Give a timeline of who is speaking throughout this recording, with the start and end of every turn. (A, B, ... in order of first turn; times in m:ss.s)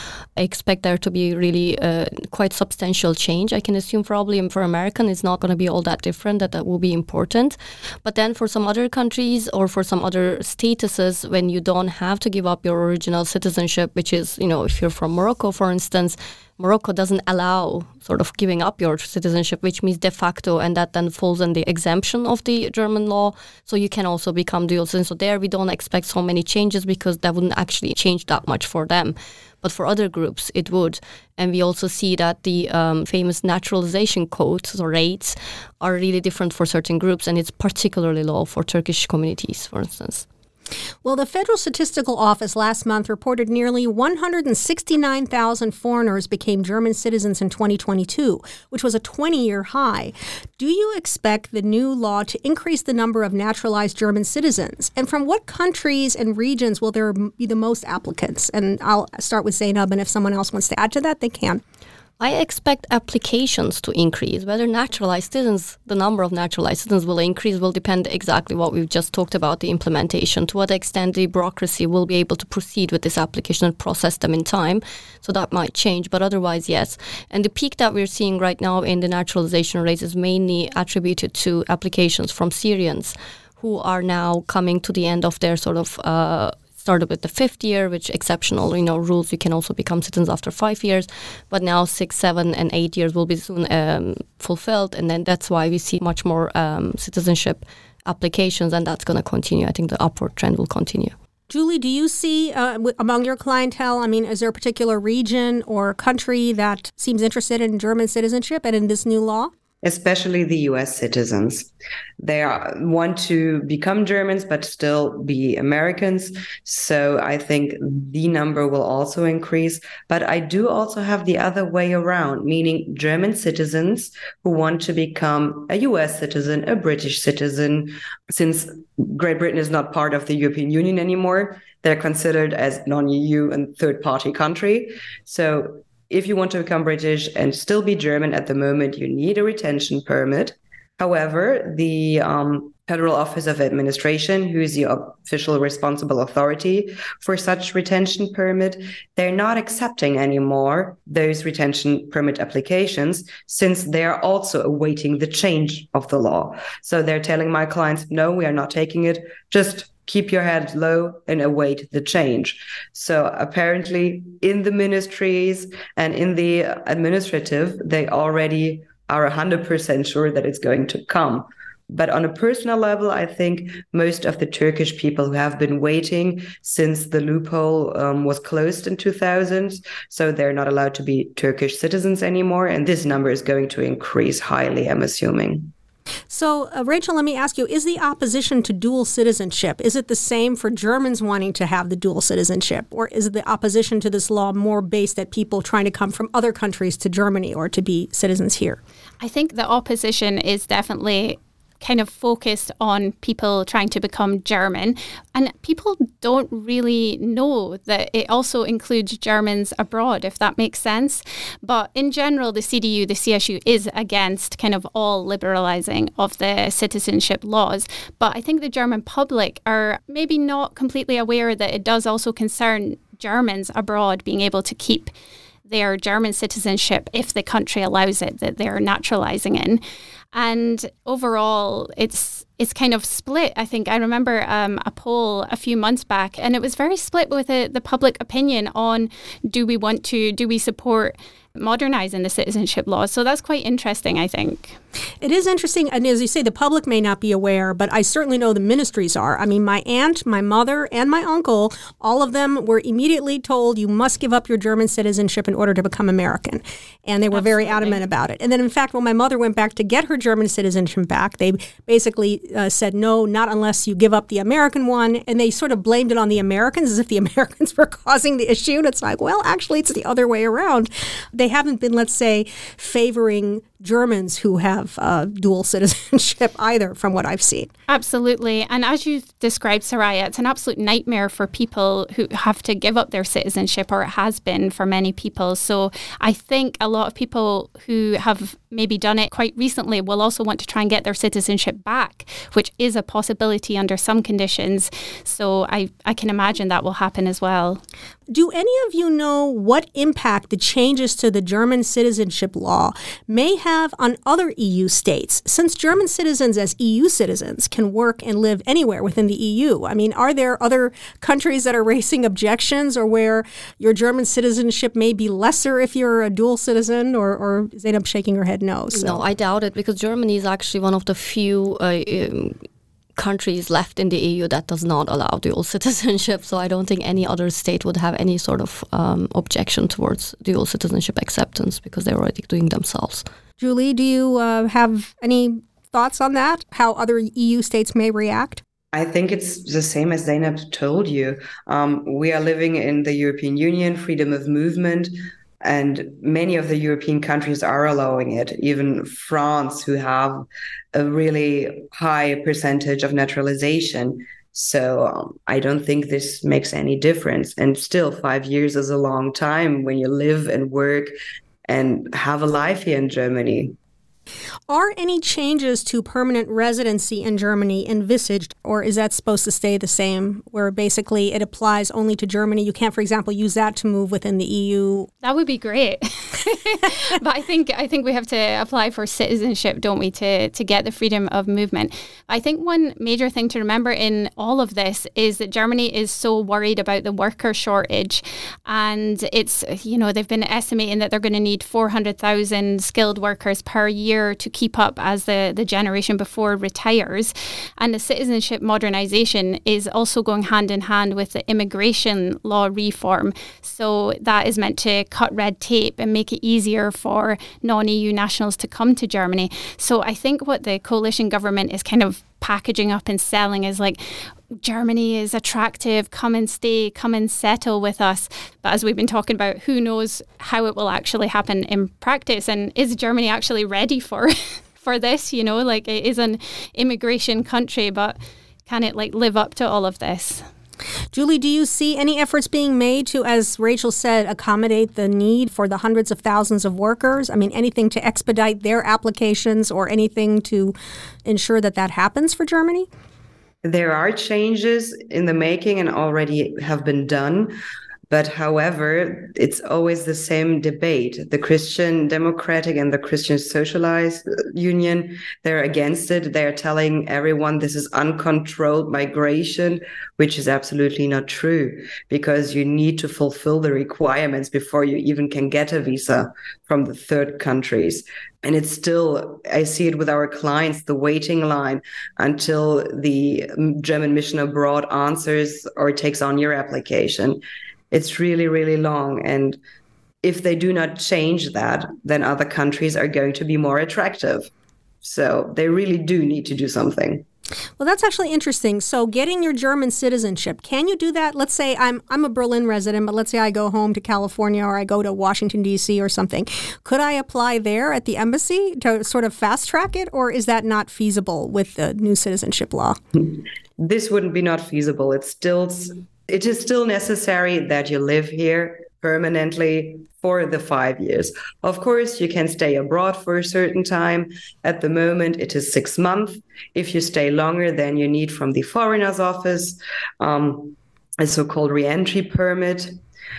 0:00.4-0:40.2 A
0:41.0-1:01.6 B
1:02.2-1:41.1 A
1:41.5-1:49.5 B
1:49.8-1:51.7 C
1:52.2-3:05.7 C
3:06.3-3:18.8 B
3:19.2-3:45.1 D
3:45.7-3:49.8 D
3:50.3-4:04.8 D
4:05.2-4:37.7 B
4:17.3-4:18.0 D
4:37.9-4:57.8 D
4:58.3-5:19.2 B
5:18.9-5:22.6 A
5:23.2-5:33.2 A
5:33.6-5:38.6 B
5:38.9-5:45.1 C
5:45.6-6:01.1 C
6:01.7-6:03.8 C
6:04.7-6:15.1 B
6:15.2-6:54.0 D
6:54.5-7:10.4 D
7:11.1-7:22.9 B
7:23.6-7:27.5 C
7:28.1-7:59.6 C
8:00.2-8:04.5 C
8:05.0-8:07.2 C
8:07.8-8:23.0 B
8:23.2-8:43.0 C